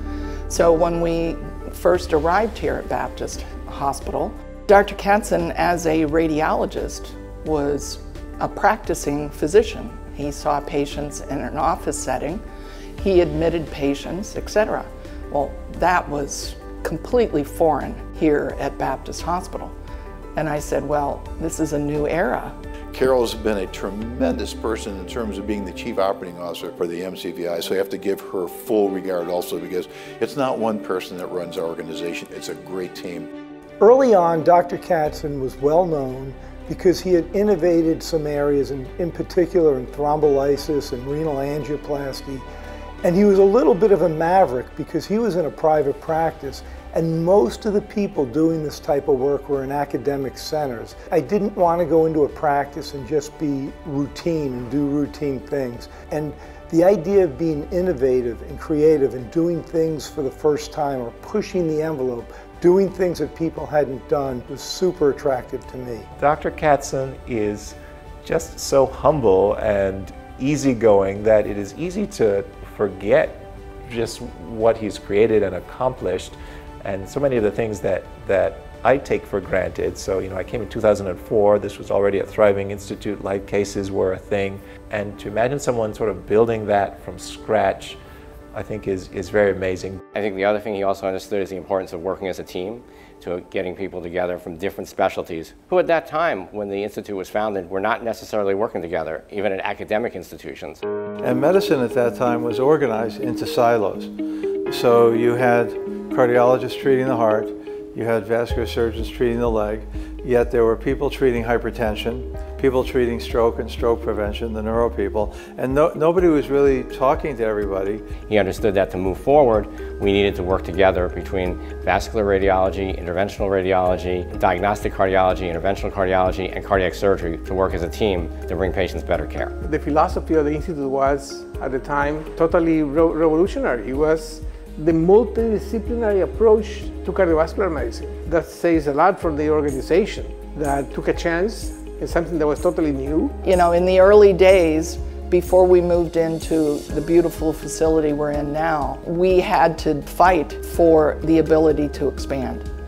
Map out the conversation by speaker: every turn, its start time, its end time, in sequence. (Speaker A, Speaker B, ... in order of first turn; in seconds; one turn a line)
Speaker A: 0.5-12.4
Speaker A: 13.0-19.7
Speaker A: 20.4-22.5
Speaker B: 22.9-33.3
Speaker C: 33.8-42.4
Speaker C: 43.0-66.1
Speaker D: 66.2-88.0
Speaker D: 88.5-90.0
Speaker E: 90.1-100.8
Speaker F: 101.2-104.1
Speaker F: 104.7-118.0
Speaker E: 118.3-129.5
Speaker G: 129.6-143.3
Speaker A: 143.4-152.6